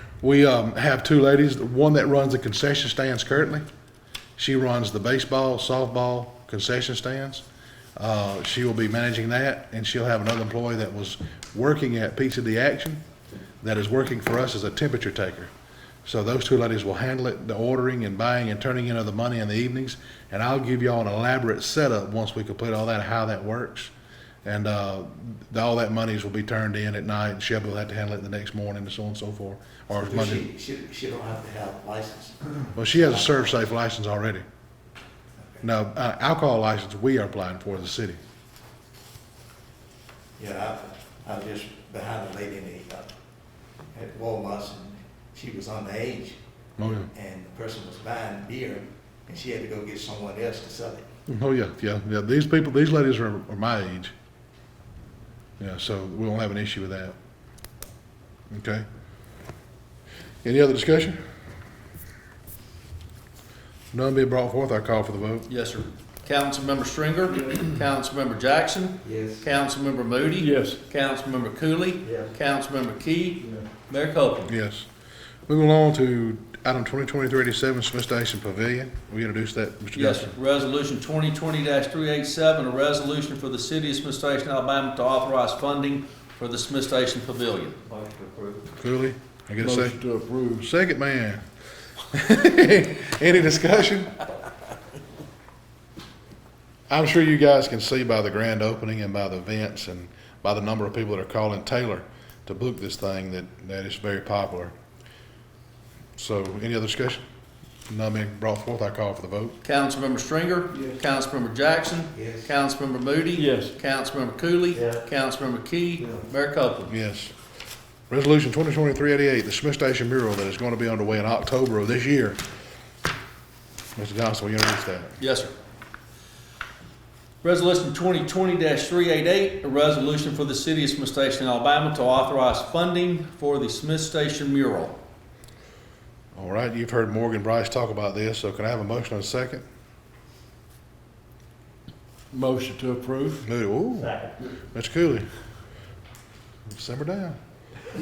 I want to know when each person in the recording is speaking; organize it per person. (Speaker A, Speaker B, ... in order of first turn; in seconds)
Speaker A: 0.2-3.6, 4.4-7.4, 8.0-13.0, 13.6-15.5, 16.1-23.9, 24.4-30.5, 32.8-34.4, 35.6-38.2, 46.8-47.1, 51.3-54.1, 55.6-57.1, 58.5-58.9, 60.4-61.2, 63.9-65.5, 74.5-74.9, 75.5-80.3, 88.8-90.0, 90.5-91.4, 92.1-94.2, 96.9-104.7, 106.2-107.2, 107.9-109.6, 116.9-117.3, 118.1-122.4, 124.0-125.2, 136.3-139.6, 143.4-145.3, 146.7-147.4
Speaker B: 30.0-33.6, 40.4-43.1, 43.9-46.4, 47.0-51.1, 69.0-69.5, 72.0-72.3, 87.9-88.6, 112.2-112.5, 144.0-144.3
Speaker C: 65.5-74.5, 79.9-87.8, 109.6-116.9, 125.2-125.5, 127.4-135.0
Speaker D: 70.4-70.8, 89.6-90.7, 113.4-113.7, 142.3-143.4